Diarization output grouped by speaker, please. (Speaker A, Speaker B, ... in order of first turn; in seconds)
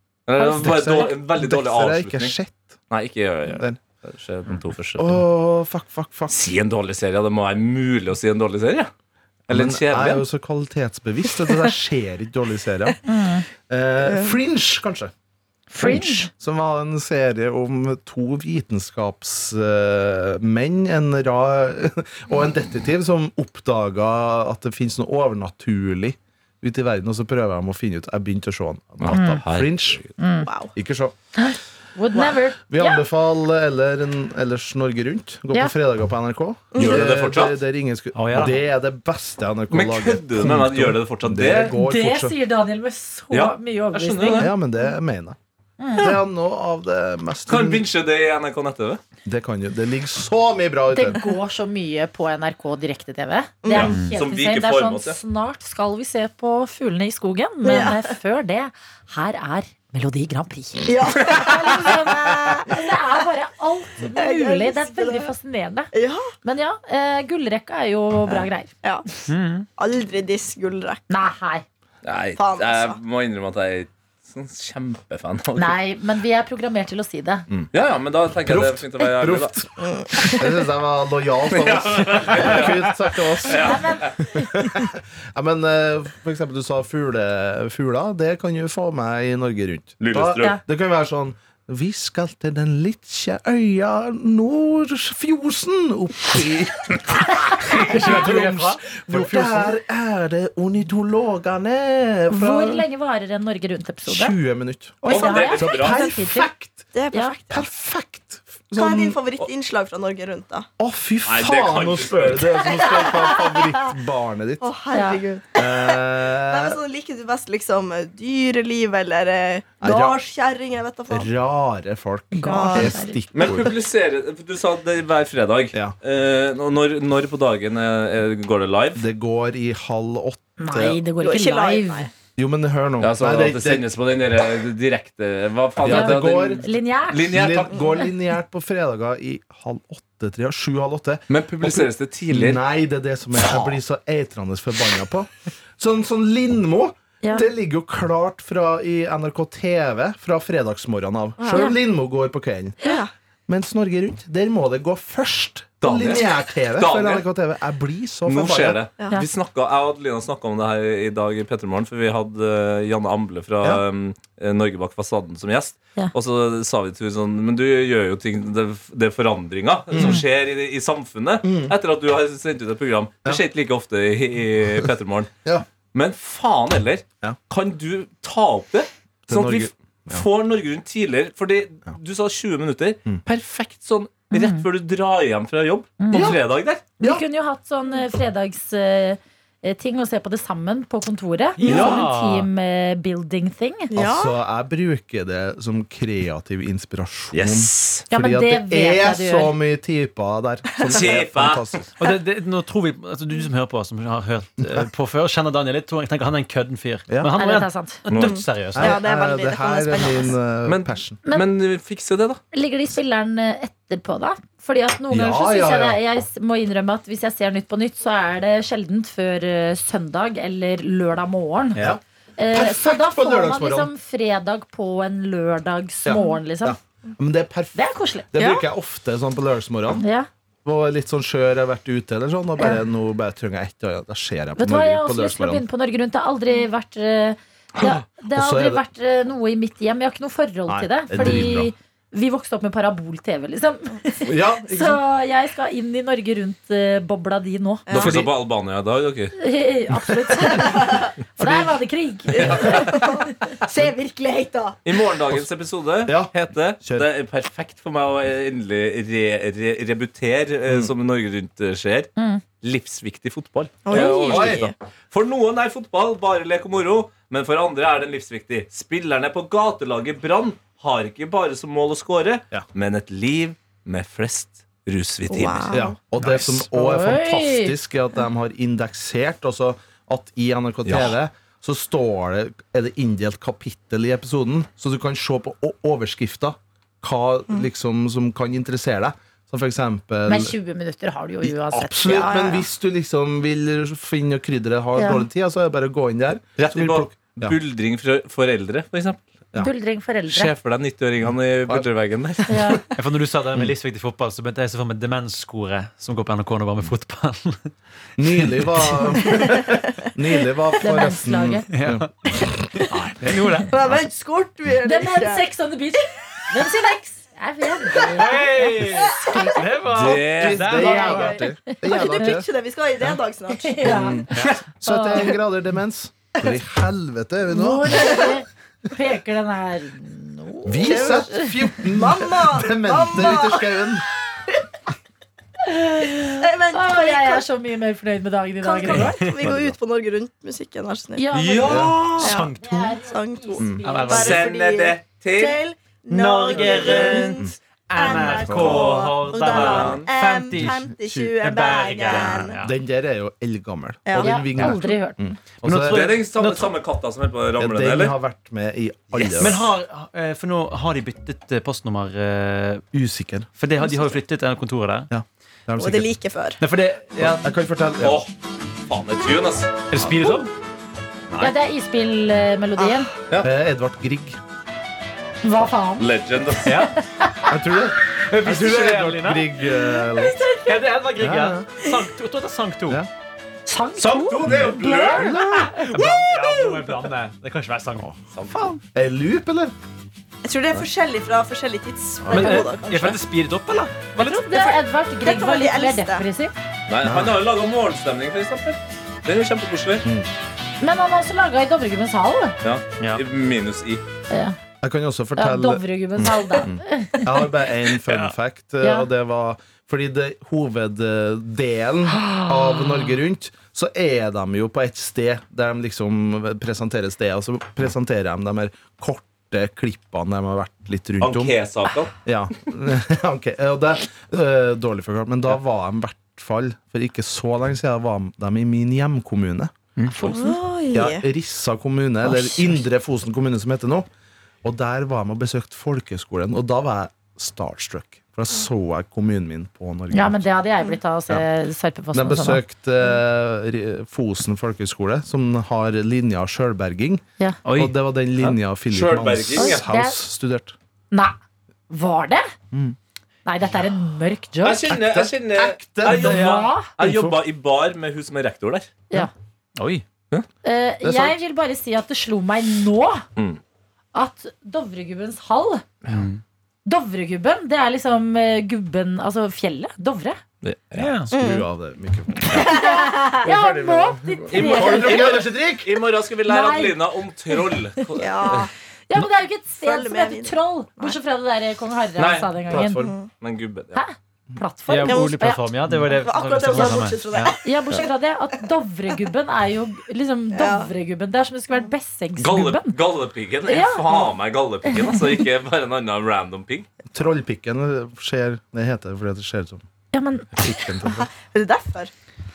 Speaker A: 0.3-2.3, 2.9-5.2, 6.3-8.9, 9.5-10.2, 29.0-30.1, 36.8-37.6, 39.7-41.8, 43.3-44.5, 47.5-49.0, 53.7-55.2, 72.0-75.8, 77.5-79.5, 81.5-84.2, 90.0-90.5, 105.0-106.1, 111.2-112.7, 123.3-129.0, 133.0-137.9, 141.3-142.6, 143.3-143.8, 155.8-157.2, 158.3-175.3, 175.9-186.8, 197.3-198.0, 200.8-201.7, 208.1-208.4, 210.7-212.4, 247.9-249.3, 254.8-275.7, 280.9-281.1, 296.6-299.2, 300.3-302.6, 319.9-320.7, 339.4-339.7, 341.3-342.4, 343.6-345.6, 349.4-350.1, 355.8-358.1, 368.0-368.3, 368.9-369.8, 376.0-376.8, 384.3-385.4, 388.3-388.7, 396.9-400.0, 402.6-404.0, 421.2-422.1, 448.9-449.8, 454.6-458.9, 470.6-471.1, 474.5-478.7, 482.2-482.8, 483.4-484.0, 492.4-496.9
Speaker B: 0.4-1.1, 13.1-13.4, 15.7-16.3, 29.1-29.4, 30.2-30.5, 31.3-33.0, 41.6-44.5, 45.8-46.2, 50.9-65.9, 66.4-68.7, 71.1-71.6, 75.5-77.5, 83.5-84.7, 102.3-104.4, 105.0-106.5, 114.9-115.2, 122.3-123.2, 130.6-132.1, 135.9-137.4, 151.5-151.8, 170.0-170.2, 184.3-184.6, 186.0-186.3, 187.0-193.9, 198.1-199.5, 207.3-208.0, 212.5-226.8, 227.7-228.6, 230.0-230.3, 234.6-247.8, 249.3-253.2, 262.2-262.4, 276.5-277.8, 290.2-292.3, 295.0-295.2, 299.6-300.5, 302.5-302.8, 310.8-311.7, 314.8-319.7, 321.7-322.4, 323.5-325.4, 327.5-331.9, 335.6-339.3, 341.1-344.4, 354.2-355.4, 371.4-373.1, 375.4-376.1, 376.9-377.5, 383.7-385.6, 394.2-396.5, 400.8-402.6, 404.3-404.6, 405.4-407.4, 408.8-409.1, 412.1-413.1, 430.1-430.6, 432.3-432.7, 440.1-442.6, 449.5-450.2, 451.9-452.5, 453.4-454.9, 456.1-456.9, 460.6-463.2, 464.1-465.8, 466.9-470.4, 472.5-475.4, 476.5-483.1, 483.9-485.6, 487.6-492.9, 493.7-494.3, 494.9-495.1, 500.1-501.1
Speaker C: 0.4-2.8, 3.5-3.8, 5.0-6.3, 9.5-13.0, 13.7-15.1, 15.8-30.0, 30.7-31.1, 32.7-42.4, 44.4-45.4, 46.0-47.9, 49.2-51.2, 78.4-102.8, 104.0-106.8, 107.5-109.2, 110.8-114.6, 115.5-116.8, 119.8-120.2, 121.1-123.8, 128.9-131.0, 132.4-133.9, 135.8-136.7, 137.3-152.9, 153.5-158.8, 169.9-170.2, 171.4-171.8, 179.3-180.2, 186.1-186.4, 191.7-192.0, 193.9-201.8, 208.7-211.2, 215.1-216.0, 222.5-223.9, 226.0-230.1, 230.6-235.6, 237.8-238.8, 240.7-241.7, 244.2-245.0, 247.9-248.3, 250.0-250.4, 251.4-251.8, 256.1-256.3, 263.9-264.7, 275.7-290.6, 291.4-297.6, 302.5-302.8, 308.2-313.0, 319.9-322.5, 323.8-328.3, 330.6-334.1, 341.6-342.0, 348.1-348.9, 350.5-351.3, 352.1-356.2, 357.6-359.7, 362.9-363.5, 365.1-366.1, 367.4-368.2, 373.3-374.4, 377.5-380.5, 381.2-381.7, 384.5-385.8, 388.0-389.7, 392.2-393.1, 397.0-397.4, 400.0-400.3, 404.8-421.6, 422.2-430.3, 430.9-434.1, 434.6-440.5, 442.1-447.2, 447.7-450.8, 452.7-453.0, 454.8-457.4, 461.0-461.4, 471.3-472.8, 473.4-475.9, 482.7-483.1, 497.1-499.8, 500.6-501.3
Speaker D: 14.1-14.3, 30.4-30.7, 36.7-37.1, 53.6-53.9, 57.6-58.1, 60.9-63.0, 64.1-65.3, 65.9-66.3, 68.3-69.1, 69.8-71.0, 72.3-73.0, 79.8-80.3, 106.9-107.6, 108.8-110.7, 112.6-113.9, 114.6-121.3, 122.4-122.9, 131.2-132.1, 151.4-151.7, 152.8-153.1, 193.9-194.3, 208.1-210.3, 241.2-241.5, 247.8-248.2, 250.5-251.1, 252.3-254.8, 263.9-264.7, 275.3-275.9, 292.1-292.6, 309.2-309.8, 313.6-315.5, 317.8-318.1, 320.6-324.1, 327.9-328.3, 330.9-331.3, 331.9-333.7, 336.4-337.4, 338.6-341.2, 342.2-352.6, 354.1-354.4, 359.2-359.5, 363.8-364.1, 365.8-366.6, 372.8-373.1, 379.6-380.8, 385.9-387.0, 390.4-393.1, 395.2-396.2, 430.2-431.2, 471.3-471.6, 472.5-473.4, 478.2-478.7, 479.8-481.1, 482.9-483.3, 485.1-485.4, 486.1-488.1, 490.5-490.9, 501.4-502.1
Speaker E: 38.1-38.6, 69.3-69.7, 97.5-99.7, 191.6-192.5, 202.0-209.0, 303.0-307.7, 308.4-309.1, 311.7-312.1, 312.9-313.8, 318.0-321.4, 324.3-324.6, 338.9-339.5, 342.1-343.0, 343.8-344.5, 346.1-352.7, 355.6-356.7, 359.3-362.8, 363.6-365.1, 366.6-367.5, 369.9-370.5, 376.6-376.9, 378.1-379.5, 380.6-383.0, 384.0-388.1, 392.3-394.8, 408.1-408.3, 447.6-448.6, 459.8-460.0, 466.1-466.4, 470.9-471.3, 484.9-487.6